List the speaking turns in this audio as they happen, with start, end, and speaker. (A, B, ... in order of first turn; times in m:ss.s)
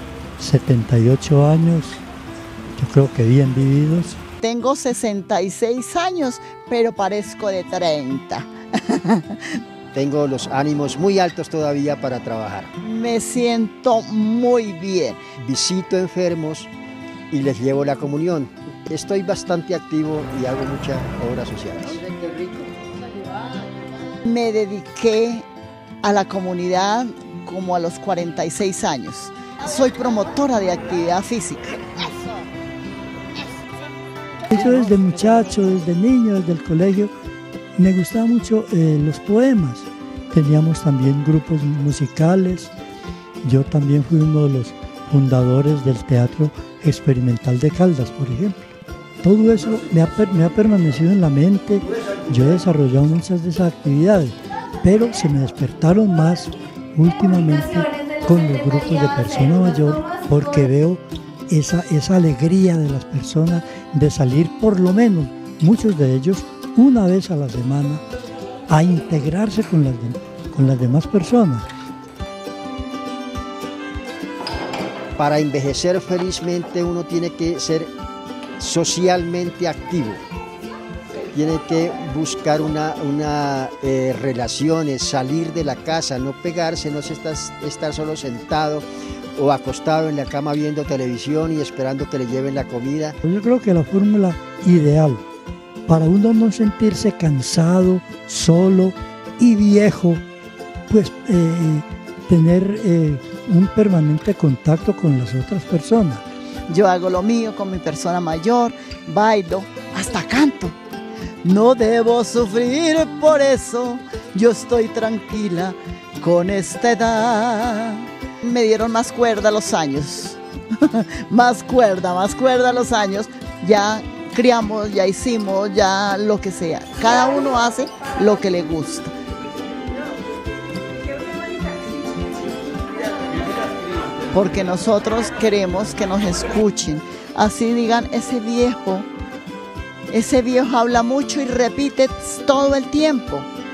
0:00.4-0:02.0 A
0:02.8-0:04.2 A
0:04.4-0:09.6 B
0:09.9-0:12.7 C
0:12.8-0:15.2 B
0:15.4-0:16.7 C
0:17.3-0:22.6 C
0:24.2-0:25.5 B
0:26.0-0:32.4 B
0:34.5-0:37.1 A
0:37.8-0:42.7 A
0:43.4-1:08.0 A
1:08.7-1:11.6 A
1:15.2-1:17.9 C
1:18.6-1:20.2 C
1:21.3-1:28.8 C
1:29.4-1:33.2 C
1:33.2-1:35.2 A
1:35.8-1:40.2 A
1:40.9-1:46.2 A
1:46.7-1:50.8 B
1:51.4-2:09.1 B
2:14.3-2:19.1 B
2:20.1-2:23.5 B